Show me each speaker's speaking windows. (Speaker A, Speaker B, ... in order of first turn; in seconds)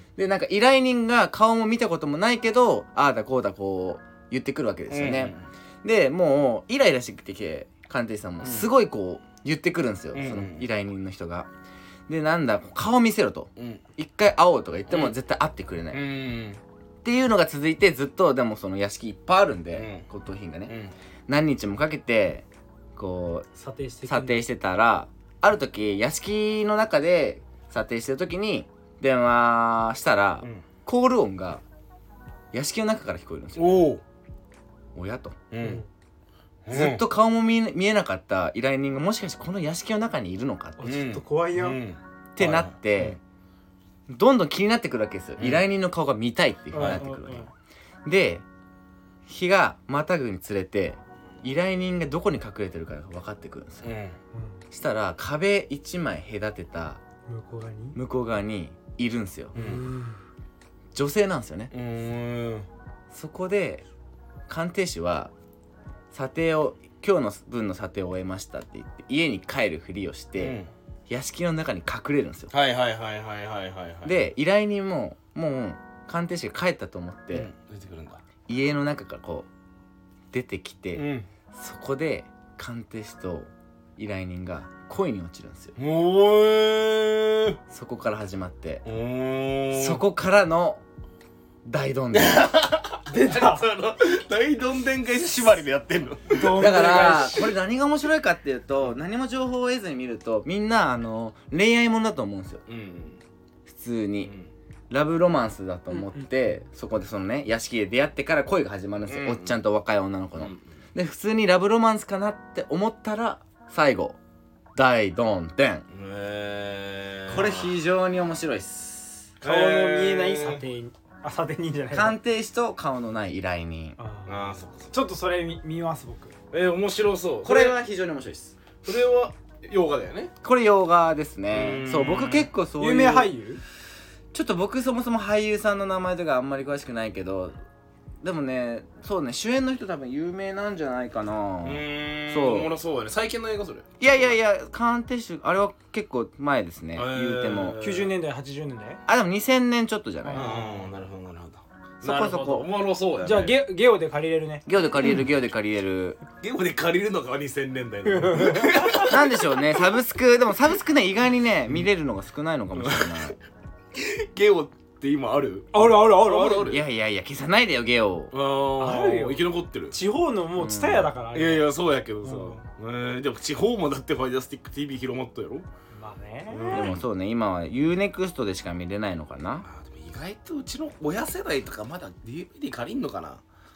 Speaker A: 0.2-11.5, 12.1-16.0, 17.1-20.7, 21.3-23.5, 24.1-31.6, 32.5-33.8, 35.0-35.4, 36.7-40.8, 42.4-43.2, 44.1-47.5, 48.0-48.4, 49.3-53.9, 54.7-57.0, 58.0-59.5, 60.9-61.7, 63.1-63.8, 64.5-65.3, 66.1-72.5, 74.0-77.5, 78.5-79.5, 80.3-85.8, 87.7-88.8, 89.7-90.8, 91.7-92.5, 96.5-102.6, 103.7-104.3, 104.9-114.2, 114.8-115.8, 117.3-119.3, 121.9-124.0, 127.4-128.6, 130.4-133.3, 134.3-137.6, 138.2-142.7, 144.0-147.8, 149.1-150.4, 152.0-152.7, 154.7-156.2, 159.0-163.4, 166.7-168.3, 170.6-171.1, 176.7-179.7
Speaker B: 4.9-5.5, 8.4-8.7, 10.1-10.7, 14.9-15.2, 15.9-16.6, 19.8-20.1, 20.7-20.9, 33.6-34.0, 35.5-35.8, 36.7-37.0, 40.8-43.2, 45.4-45.6, 46.8-47.0, 53.8-54.2, 59.5-59.9, 61.7-62.7, 70.4-70.7, 72.5-74.2, 77.3-78.2, 81.0-81.3, 85.8-87.6, 88.8-90.0, 92.1-97.5, 102.7-103.2, 109.1-109.5, 110.4-110.6, 115.9-117.7, 119.4-120.6, 124.3-124.9, 126.5-127.8, 128.8-130.3, 131.5-132.5, 141.6-144.3, 147.0-148.1, 150.3-153.6, 156.4-159.4, 162.8-163.3, 163.9-166.8, 168.3-169.9, 171.3-175.7, 176.5-177.0, 179.6-183.4
Speaker C: 23.6-24.4, 40.8-41.8, 46.7-47.5, 54.3-54.6, 57.3-58.0, 59.6-60.2, 93.1-93.6, 96.3-97.4, 105.9-106.3, 119.4-122.2, 124.0-124.3, 124.9-126.3, 132.8-133.6, 147.8-149.0, 150.2-150.9, 153.2-154.7, 158.1-159.1, 165.7-166.8, 168.8-171.7, 172.2-172.6, 176.0-176.9